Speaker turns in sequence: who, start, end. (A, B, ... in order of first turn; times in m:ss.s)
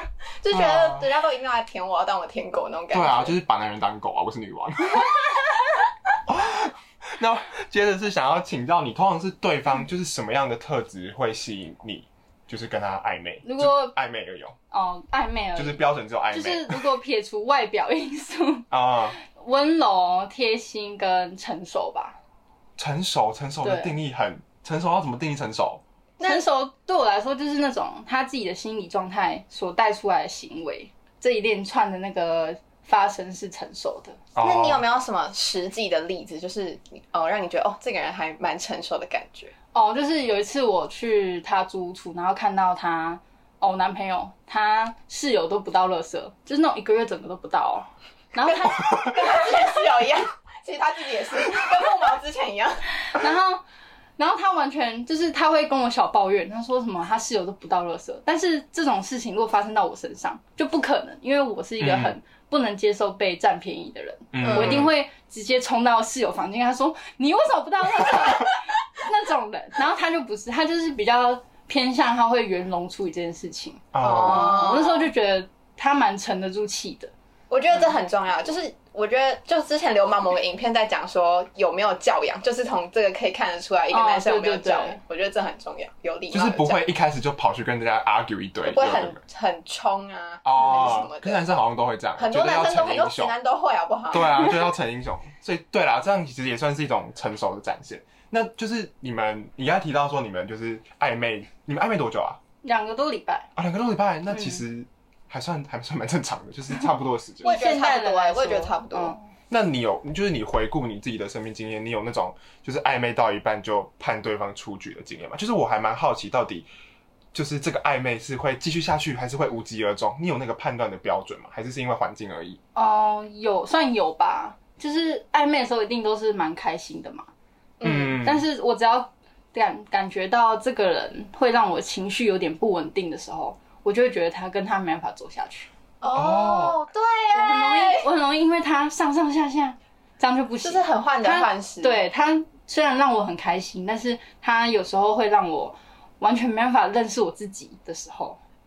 0:00.4-0:03.4 A
0:00.5-0:01.1 B
0:02.9-0:05.1 B
0:06.3-0:14.6 B
0:13.4-0:13.9 C
0:14.7-0:18.7 C
0:15.6-0:16.8 B
0:18.7-0:19.2 B
0:19.2-0:22.2 C
0:22.8-0:25.8 B
0:23.6-0:24.0 C
0:26.2-0:26.5 A
0:26.2-0:34.2 C
0:34.4-0:34.8 B
0:34.4-0:39.5 A
0:39.7-0:48.8 C
0:48.4-0:52.8 A
0:53.1-0:53.6 C
0:54.2-1:17.1 C
1:01.8-1:02.2 B
1:04.3-1:04.9 B
1:04.4-1:04.9 A
1:13.9-1:14.8 B
1:14.0-1:15.1 A
1:17.5-1:26.8 A
1:23.9-1:25.0 C
1:26.3-1:29.2 B
1:28.6-1:31.6 A
1:30.4-1:33.4 B
1:32.2-1:34.4 A
1:34.1-1:42.4 B
1:42.6-1:43.5 C
1:43.6-1:47.5 B
1:44.3-1:44.6 C
1:47.4-1:49.2 A
1:47.4-1:49.2 C
1:49.5-1:56.7 B
1:57.3-2:02.6 B
2:02.8-2:07.3 C
2:07.8-2:08.2 A
2:07.8-2:08.4 B
2:08.2-2:15.7 C
2:16.0-2:18.1 A
2:16.1-2:16.8 B
2:17.3-2:28.4 C
2:20.6-2:22.0 A